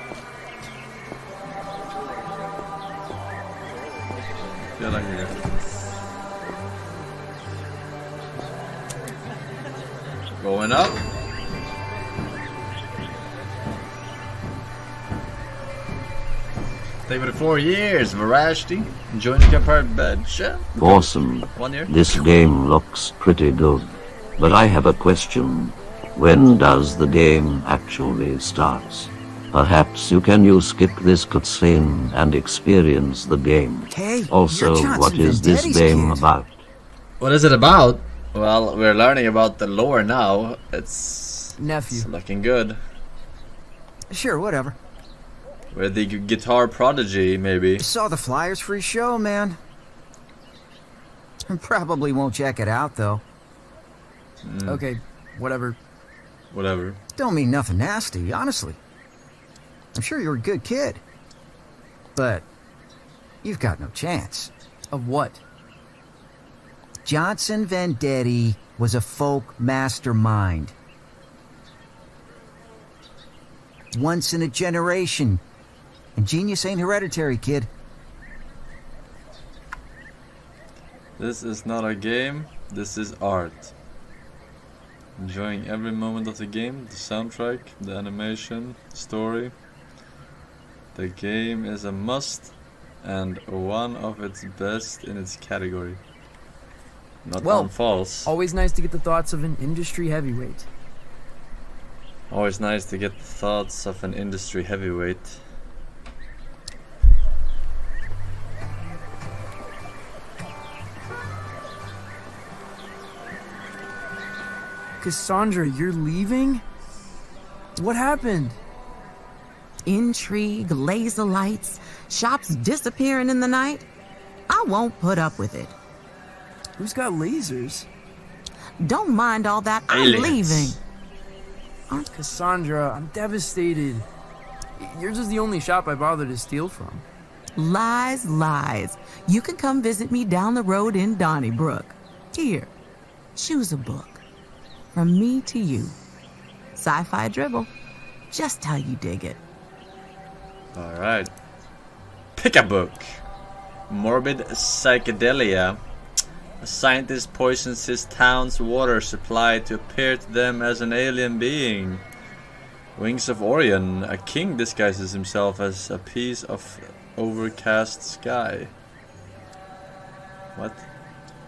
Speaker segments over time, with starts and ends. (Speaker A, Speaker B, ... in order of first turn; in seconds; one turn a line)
Speaker A: 4.8-5.5
Speaker A: 10.4-11.0
Speaker A: 17.1-21.9
Speaker B: 20.8-36.6
Speaker C: 33.9-36.3
Speaker A: 37.2-42.8
Speaker C: 41.6-42.1
Speaker D: 44.1-44.8
Speaker A: 45.7-47.8
Speaker D: 47.8-49.6
Speaker D: 51.4-53.2
Speaker A: 54.4-54.9
Speaker C: 54.7-55.8
Speaker A: 56.5-57.0
Speaker D: 57.1-58.8
Speaker D: 59.9-61.0
Speaker D: 62.1-62.5
Speaker D: 63.4-64.5
Speaker C: 64.9-65.4
Speaker D: 67.0-70.7
Speaker D: 73.9-75.4
Speaker D: 76.2-77.7
Speaker A: 81.2-83.7
Speaker A: 85.2-89.5
Speaker A: 90.9-96.0
Speaker A: 97.2-98.3
Speaker C: 97.4-97.7
Speaker C: 98.2-100.7
Speaker A: 102.3-105.4
Speaker C: 115.0-116.6
Speaker C: 117.8-118.6
Speaker E: 119.8-123.8
Speaker E: 124.5-125.7
Speaker C: 126.8-127.9
Speaker E: 128.8-130.8
Speaker A: 129.9-130.8
Speaker C: 131.9-134.1
Speaker C: 134.8-137.0
Speaker E: 137.5-142.7
Speaker E: 143.3-144.2
Speaker E: 144.9-145.9
Speaker E: 146.8-147.7
Speaker E: 148.3-149.4
Speaker A: 150.7-151.3
Speaker A: 152.4-153.2
Speaker A: 153.9-155.8
Speaker A: 156.6-162.0
Speaker A: 162.9-168.7
Speaker A: 170.5-170.8